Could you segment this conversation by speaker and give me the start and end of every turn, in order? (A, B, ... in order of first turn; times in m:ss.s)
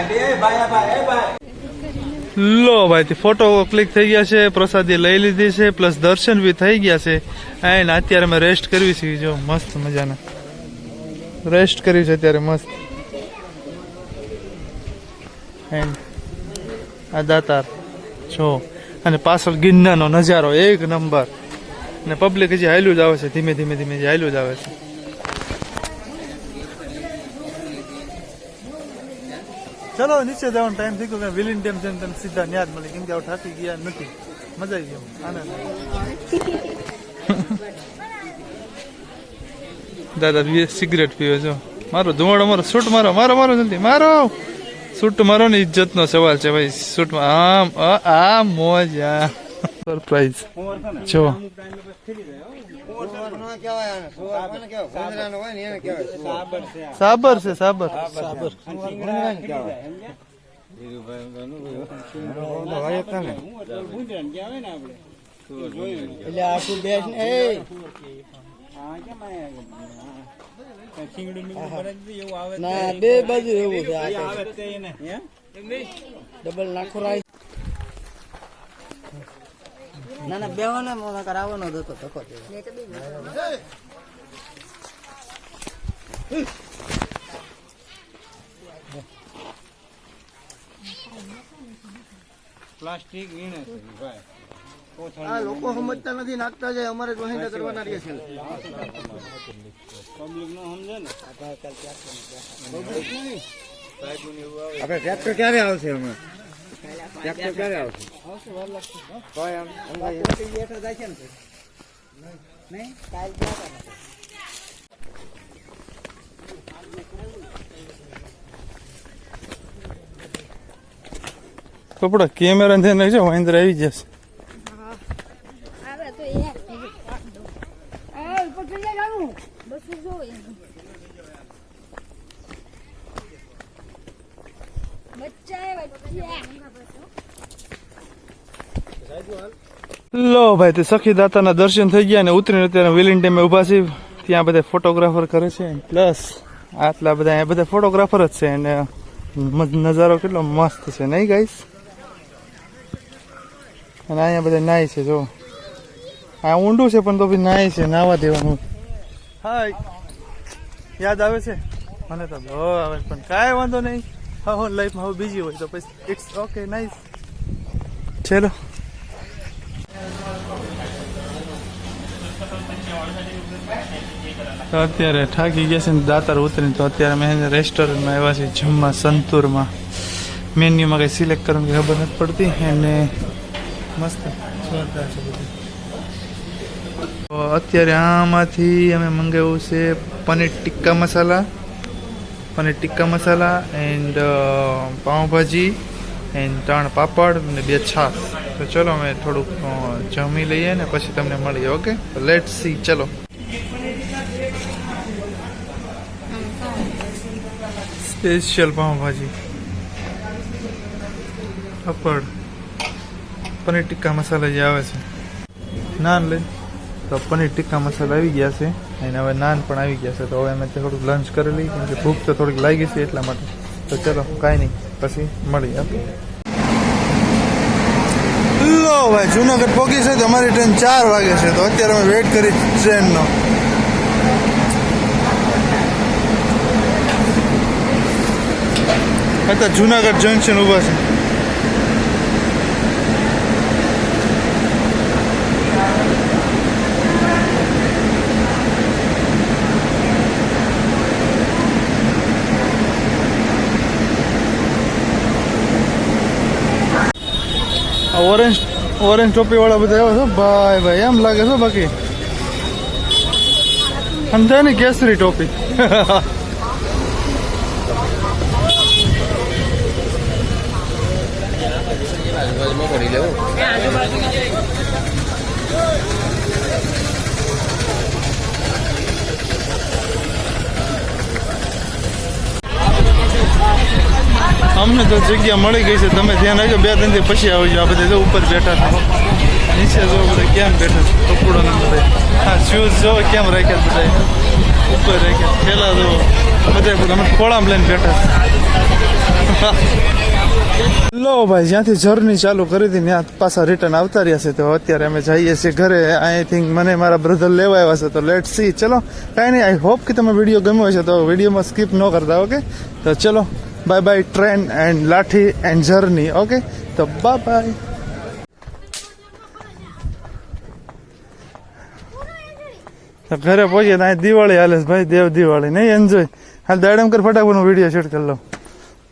0:01.4-0:02.3 A
0:02.3-0:10.2 B
0:11.4-0:12.7 B
0:15.7-0:16.0 B
0:17.1-0:17.7 B
0:18.3-0:21.3 B
0:22.0-0:24.7 B
0:30.0-0:35.7 B
0:35.8-0:36.8 A
0:37.3-0:37.6 B
0:40.2-0:44.4 B
0:44.9-0:51.4 B
0:52.9-0:56.6 C
0:56.9-0:58.1 B
0:58.0-0:59.8 C
1:01.9-1:03.4 C
1:04.0-1:04.9 D
1:06.2-1:07.7 C
1:08.9-1:10.0 D
1:11.1-1:11.4 D
1:11.5-1:14.6 C
1:16.4-1:17.2 C
1:20.2-1:23.4 C
1:22.5-1:23.3 A
1:31.1-1:31.4 A
1:32.9-1:33.7 D
1:35.2-1:39.1 C
1:40.2-1:41.0 D
1:41.1-1:42.0 C
1:42.6-1:43.2 C
1:44.8-1:46.2 C
1:47.2-1:48.1 C
1:49.5-1:50.6 C
2:02.0-2:04.1 B
2:04.6-2:05.0 A
2:05.8-2:07.5 A
2:08.1-2:10.7 A
2:15.1-2:17.1 A
2:20.1-2:31.6 B
2:34.1-2:35.3 B
2:36.4-2:38.6 B
2:39.4-2:39.8 B
2:41.0-2:47.0 B
2:48.2-2:48.5 B
2:54.7-2:59.7 B
3:00.6-3:03.1 B
3:04.0-3:05.5 B
3:07.3-3:11.5 B
3:12.6-3:15.8 B
3:16.3-3:23.1 B
3:26.3-3:27.0 A
3:28.0-3:29.3 B
3:31.8-3:32.3 B
3:33.6-3:35.0 B
3:36.0-3:36.5 B
3:37.1-3:46.1 B
3:48.6-3:53.3 B
3:59.5-4:01.0 B
4:18.1-4:21.9 B
4:24.2-4:26.3 B
4:44.7-4:49.1 B
4:49.7-4:54.3 B
4:54.9-4:58.3 B
4:59.5-4:59.9 B
5:01.1-5:17.8 B
5:22.1-5:22.9 A
5:23.3-5:28.4 B